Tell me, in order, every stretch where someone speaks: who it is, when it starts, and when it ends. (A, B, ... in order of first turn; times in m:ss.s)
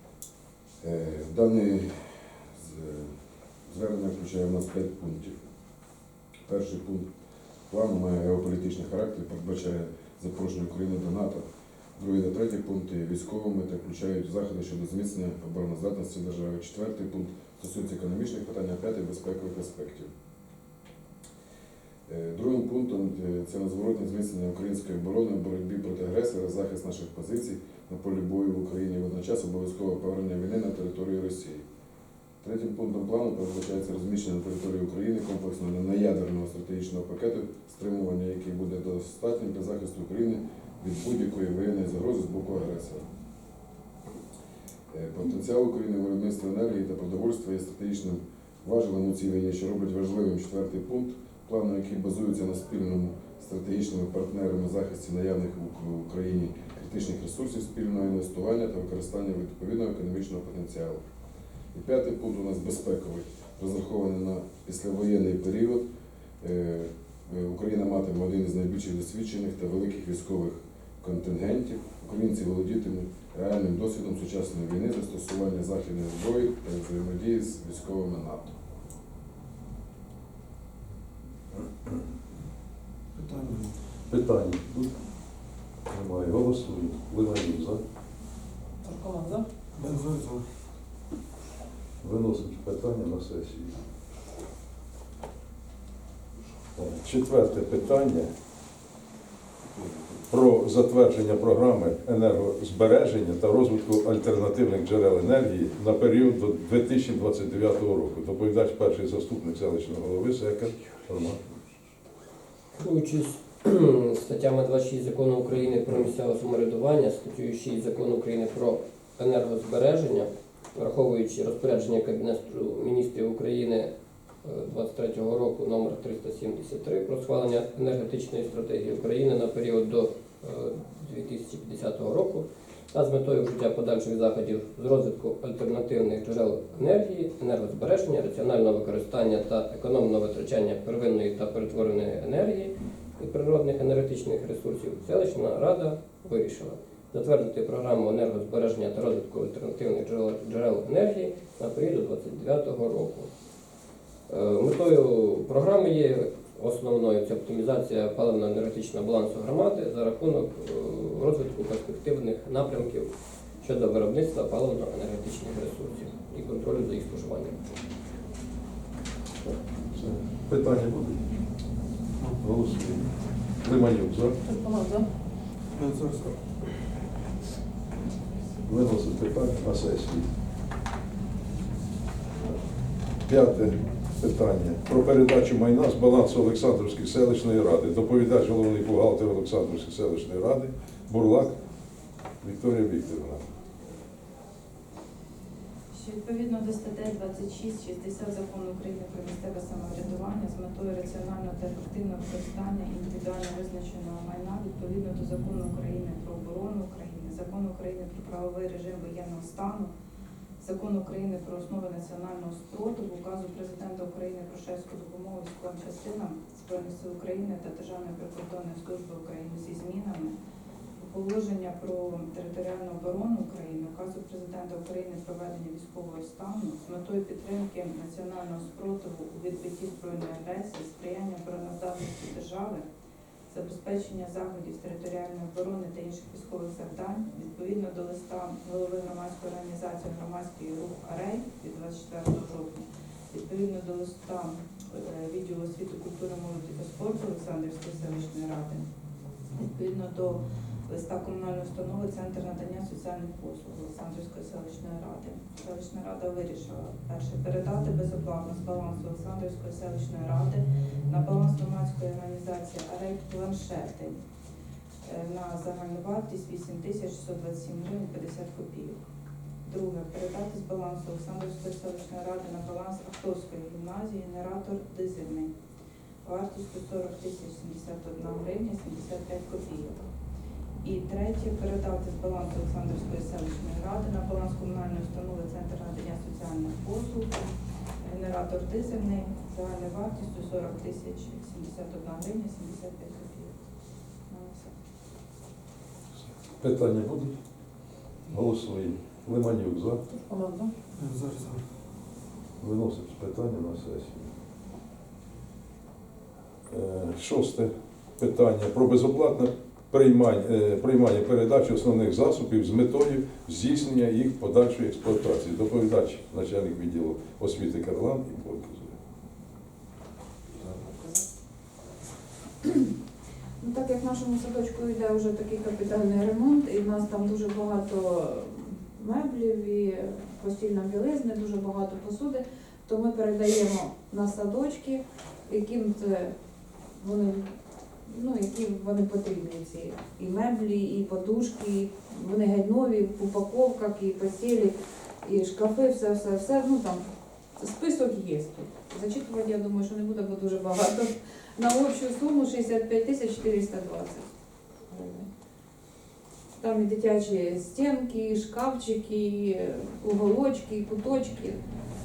0:00.8-0:03.1 A
0:03.6-0:05.5 A
0:06.5-0:07.1 A
0:07.7-0:11.4 A
0:12.0-0:20.1 A
0:22.1-0:31.6 A
0:32.4-0:43.1 A
0:44.9-1:01.0 A
1:01.7-1:05.9 A
1:06.4-1:18.6 A
1:23.1-1:23.7 B
1:24.1-1:24.9 C
1:25.9-1:27.8 C
1:28.8-1:29.4 D
1:29.8-1:30.5 B
1:32.0-1:33.8 C
1:36.7-1:38.3 C
1:40.3-1:51.5 C
1:52.8-2:03.9 E
2:04.4-2:33.3 E
2:34.3-2:43.1 E
2:43.6-2:47.6 E
2:49.9-2:51.2 C
2:52.4-2:54.4 C
2:54.4-2:55.0 D
2:55.7-2:56.4 B
2:58.6-3:00.3 C
3:03.2-3:11.6 C
3:12.4-3:13.4 C
3:15.9-3:29.9 F
3:30.6-3:40.4 F
3:41.0-3:52.8 F
3:53.5-4:08.8 F
4:09.5-4:24.2 F
4:25.0-4:29.0 F
4:29.6-4:35.5 F
4:36.2-4:40.0 F
4:40.8-4:47.5 F
4:48.0-4:53.6 F
4:54.3-4:54.7 F
4:56.6-4:57.4 C
4:58.3-5:00.0 C
5:00.1-5:00.7 D
5:01.0-5:01.6 B
5:02.6-5:04.3 C
5:06.7-5:19.0 C
5:23.6-5:36.3 D
5:36.9-5:54.3 D
5:54.9-5:55.3 D
5:56.6-6:01.6 D